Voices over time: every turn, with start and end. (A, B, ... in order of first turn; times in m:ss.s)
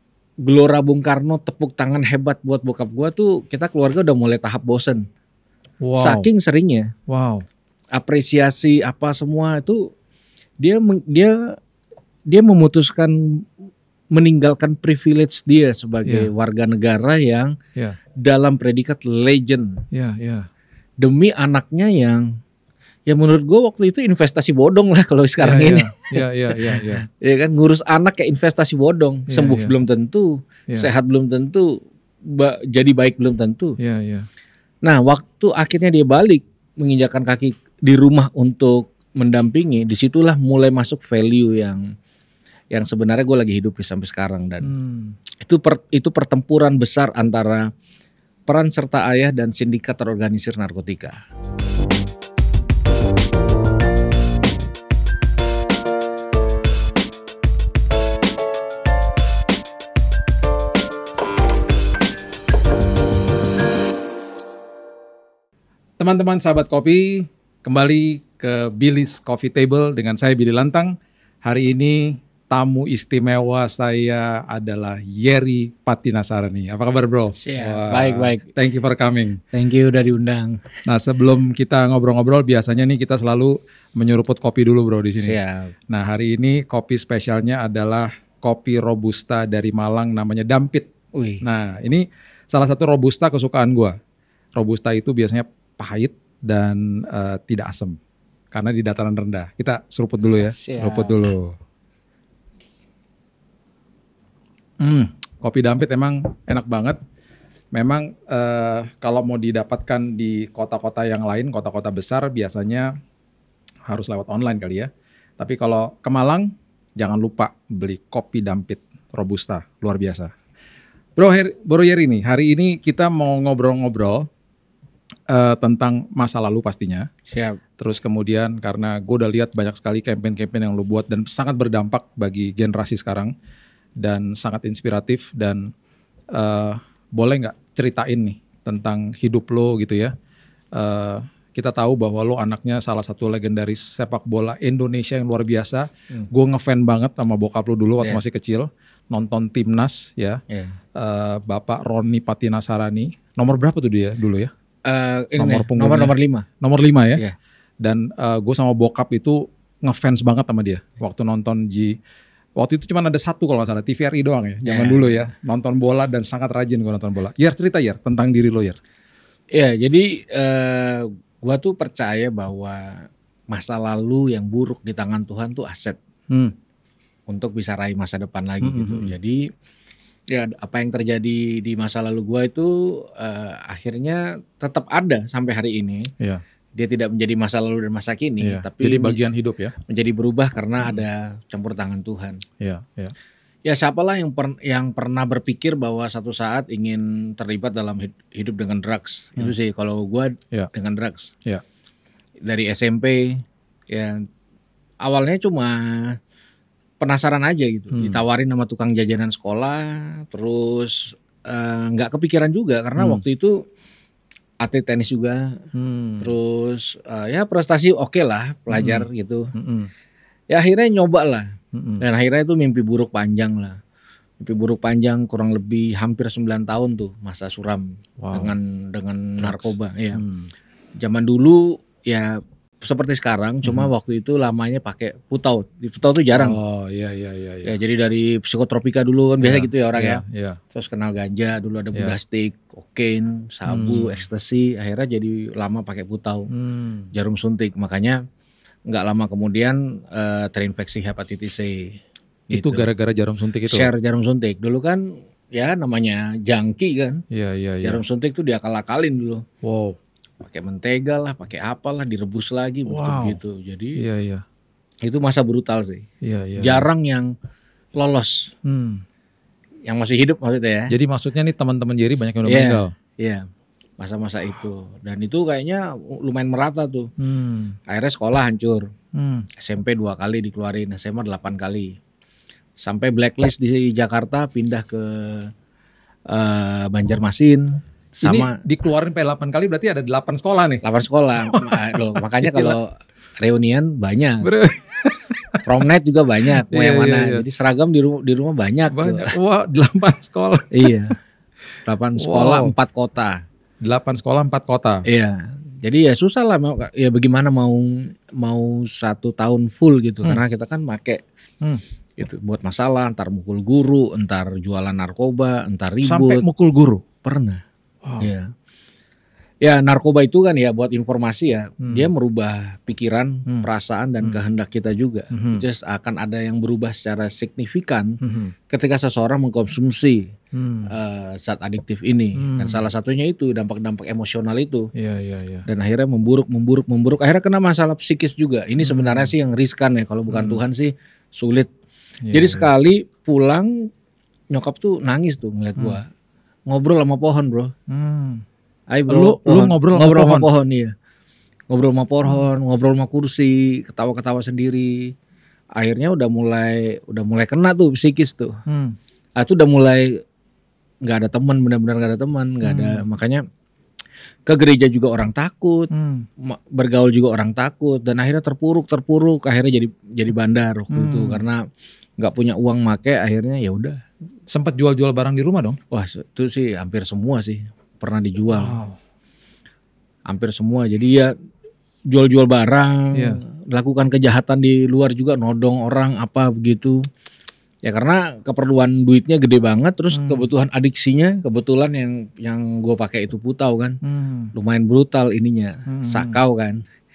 0:00.4-0:05.0 A
0:05.8-0:06.3 B
0:06.0-0:06.9 A
0:07.1-0:07.4 B
0:07.9-0:09.9 A
0:10.6-0:11.6 A
0:12.3-0:13.4 A
0:14.1-0:17.5 A
0:18.2-0:19.8 A
0:19.9-0:20.5 B
0:21.0-0:22.3 A
0:23.1-0:33.8 A
0:25.4-0:27.0 B
0:29.3-0:29.7 B
0:33.8-0:34.3 B
0:34.8-0:41.9 A
0:42.7-0:44.7 A
0:44.6-0:45.2 B
0:45.4-0:47.7 A
0:48.5-0:51.2 A
1:06.0-1:19.4 B
1:17.4-1:18.5 A
1:19.5-1:20.7 A
1:20.8-1:25.4 B
1:25.2-1:25.7 A
1:25.9-1:30.9 B
1:31.1-1:31.4 A
1:31.4-1:34.0 B
1:34.6-1:38.0 B
1:38.5-1:41.6 B
1:40.6-1:41.2 A
1:44.8-1:47.0 B
1:47.7-1:52.9 B
1:53.8-2:00.3 B
2:01.2-2:04.3 B
2:05.3-2:07.1 B
2:07.3-2:07.6 A
2:07.8-2:13.3 B
2:14.0-2:15.7 B
2:16.3-2:20.1 B
2:20.7-2:30.4 B
2:30.5-2:30.8 A
2:30.9-2:34.5 B
2:34.8-2:36.5 A
2:35.4-2:37.2 B
2:37.8-2:41.9 B
2:42.6-2:48.8 B
2:44.6-2:45.2 A
2:49.5-2:56.0 A
2:56.3-2:56.5 B
2:57.3-2:59.5 A
2:58.6-2:59.1 B
3:00.3-3:06.1 A
3:06.8-3:09.2 A
3:08.4-3:09.7 B
3:09.8-3:12.4 A
3:12.6-3:13.1 B
3:13.6-3:21.3 A
3:22.4-3:24.2 A
3:25.0-3:26.2 A
3:27.0-3:33.6 A
3:27.9-3:28.2 B
3:33.0-3:33.2 B
3:34.6-3:35.6 A
3:35.7-3:36.4 B
3:36.2-3:39.5 A
3:38.7-3:39.9 B
3:40.5-3:43.8 A
3:41.7-3:42.0 B
3:44.4-3:50.2 A
3:48.2-3:48.5 B
3:49.4-3:50.5 B
3:51.0-3:56.6 A
3:56.3-3:57.8 B
3:57.6-4:06.5 A
3:59.4-4:00.6 B
4:03.7-4:04.2 B
4:06.5-4:07.1 B
4:07.1-4:08.2 A
4:08.9-4:12.0 A
4:12.5-4:12.9 A
4:12.5-4:13.9 B
4:13.7-4:17.2 A
4:17.3-4:18.0 B
4:17.8-4:19.4 A
4:19.6-4:20.0 B
4:20.4-4:24.0 A
4:22.9-4:23.4 B
4:24.0-4:24.4 B
4:25.0-4:26.0 A
4:26.2-4:26.9 B
4:26.6-4:27.3 A
4:28.0-4:28.5 A
4:28.6-4:29.0 B
4:29.8-4:30.9 A
4:30.9-4:32.9 B
4:32.4-4:33.4 A
4:34.0-4:37.1 A
4:37.2-4:37.8 B
4:37.9-4:38.9 A
4:39.1-4:39.4 B
4:39.6-4:42.0 A
4:42.8-4:45.5 A
4:46.3-4:48.6 A
4:48.2-4:50.8 B
4:50.8-4:54.5 A
4:51.4-4:52.8 B
4:54.4-4:55.6 B
4:55.6-4:59.4 A
4:56.5-4:57.4 B
4:58.9-5:01.1 B
5:00.7-5:01.2 A
5:01.8-5:03.4 A
5:02.2-5:02.7 B
5:03.8-5:05.0 B
5:05.0-5:11.2 A
5:12.2-5:16.4 A
5:16.0-5:17.0 B
5:17.2-5:17.6 A
5:18.0-5:18.3 B
5:18.2-5:18.5 A
5:19.6-5:28.2 A
5:25.3-5:25.6 B
5:28.2-5:28.5 B
5:28.7-5:30.2 A
5:30.5-5:30.9 B
5:30.8-5:34.9 A
5:32.4-5:32.8 B
5:34.9-5:35.6 B
5:35.6-5:41.7 A
5:38.8-5:39.3 B
5:40.3-5:40.6 B
5:42.2-5:42.7 B
5:42.3-5:43.9 A
5:44.5-5:46.0 A
5:46.7-5:47.7 A
5:47.9-5:48.4 B
5:48.9-5:50.9 A
5:49.1-5:50.5 B
5:51.7-5:55.1 A
5:55.8-5:58.6 A
5:58.7-5:59.0 B
5:59.4-6:00.2 A
6:01.0-6:03.4 A
6:02.6-6:03.0 B
6:04.5-6:11.6 A
6:05.9-6:06.3 B
6:10.9-6:11.4 B
6:12.2-6:14.0 A
6:14.5-6:15.8 B
6:15.9-6:18.7 A
6:18.5-6:19.0 B
6:20.3-6:21.3 A
6:22.1-6:27.0 A
6:23.1-6:23.4 B
6:27.8-6:34.0 A
6:30.1-6:30.5 B
6:34.0-6:34.5 B
6:34.5-6:36.8 A
6:35.9-6:36.4 B